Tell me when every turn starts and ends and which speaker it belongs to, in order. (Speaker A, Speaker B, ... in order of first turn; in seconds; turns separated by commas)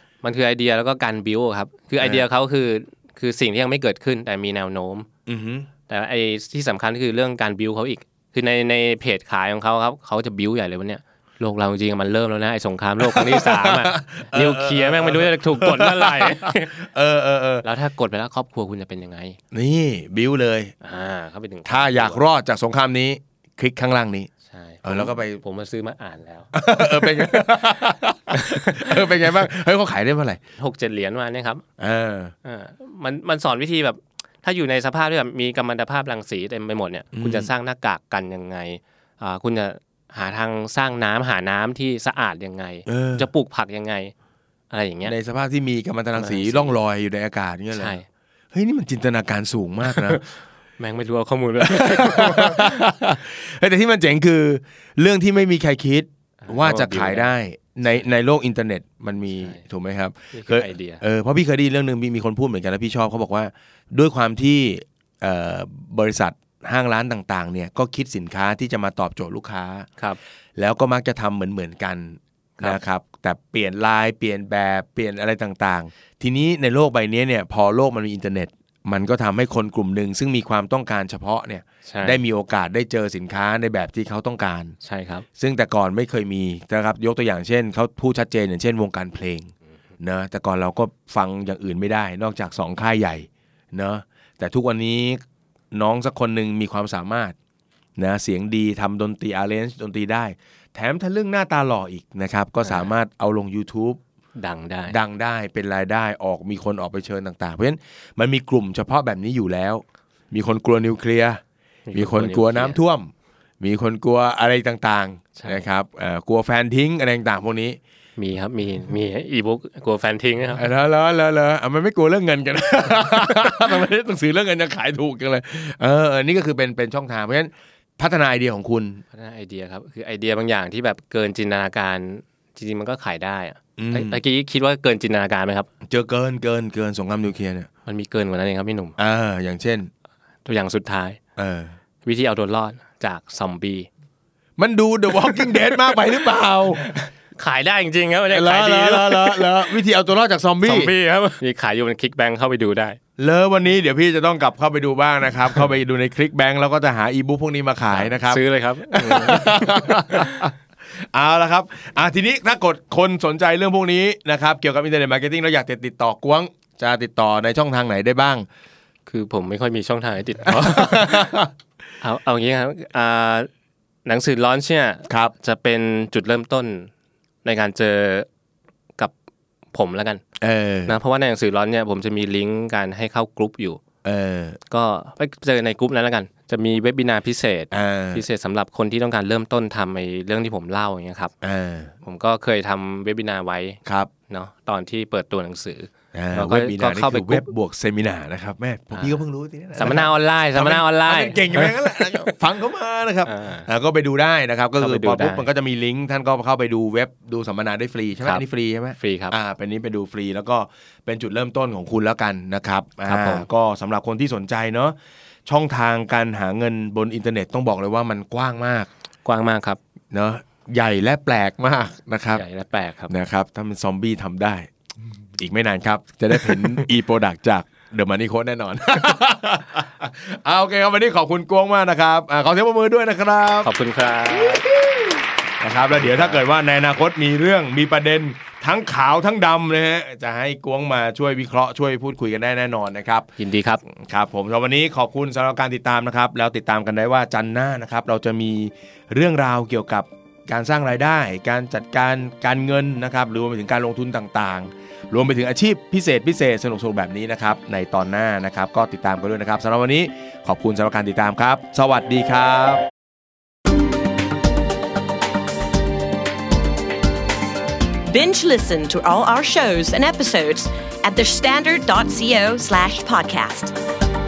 Speaker A: 0.2-5.1, Speaker B: 2.0-2.2, Speaker B: 5.3-5.7, Speaker A: 5.9-16.7, Speaker B: 13.0-17.6, Speaker A: 17.6-19.4, Speaker B: 19.5-20.7, Speaker A: 20.8-22.2, Speaker B: 21.6-24.3, Speaker A: 24.4-27.6, Speaker B: 24.8-25.3, Speaker B: 26.5-30.4, Speaker A: 28.3-29.1, Speaker A: 30.6-31.6, Speaker B: 31.8-32.3, Speaker A: 32.4-44.1, Speaker B: 37.1-37.5, Speaker B: 42.9-43.3, Speaker A: 44.7-45.1, Speaker B: 45.0-48.0, Speaker A: 46.2-46.7, Speaker A: 47.7-48.0, Speaker B: 48.5-50.2, Speaker A: 49.8-52.9, Speaker B: 51.6-69.9, Speaker A: 56.4-57.3, Speaker A: 59.3-59.6, Speaker A: 60.3-61.0, Speaker B: 70.5-84.8, Speaker A: 81.8-82.2, Speaker A: 84.8-85.2, Speaker B: 85.4-95.2, Speaker B: 95.7-97.3, Speaker B: 98.0-104.0, Speaker A: 102.7-102.9, Speaker A: 104.4-105.0, Speaker B: 104.9-111.4, Speaker A: 111.9-112.8, Speaker B: 111.9-117.8, Speaker A: 115.3-115.6, Speaker A: 118.2-120.6, Speaker B: 120.6-129.0, Speaker A: 129.1-135.7, Speaker B: 133.8-134.2, Speaker B: 135.8-137.7, Speaker A: 137.8-139.0, Speaker B: 139.0-139.9, Speaker A: 140.4-141.2, Speaker B: 141.3-141.8, Speaker A: 142.0-143.9, Speaker B: 144.6-146.8, Speaker A: 145.1-146.2, Speaker A: 146.8-149.8, Speaker B: 148.3-150.9, Speaker A: 150.6-153.0, Speaker B: 153.2-168.5, Speaker A: 157.9-160.5, Speaker A: 169.1-171.4, Speaker B: 170.4-171.5, Speaker A: 172.0-173.5, Speaker A: 174.1-176.9, Speaker B: 175.1-175.3, Speaker A: 177.4-178.3, Speaker A: 179.7-180.2, Speaker B: 180.4-181.0, Speaker A: 180.8-183.8, Speaker B: 184.0-184.6, Speaker A: 184.7-191.3, Speaker B: 187.7-188.2, Speaker B: 191.4-191.9, Speaker A: 192.0-197.5, Speaker B: 193.8-194.1, Speaker B: 196.1-214.9, Speaker A: 198.9-199.2, Speaker A: 199.8-202.3, Speaker A: 203.2-203.7, Speaker A: 204.8-205.4, Speaker A: 208.2-208.4, Speaker A: 209.0-209.3, Speaker A: 213.0-213.5, Speaker B: 215.4-218.9, Speaker A: 219.2-219.8, Speaker B: 220.1-222.4, Speaker A: 222.3-223.1, Speaker B: 223.1-224.7, Speaker B: 225.4-233.7, Speaker A: 233.6-234.6, Speaker B: 234.3-243.3, Speaker A: 236.0-236.4, Speaker A: 243.4-243.8, Speaker B: 243.9-262.8, Speaker C: 268.1-273.8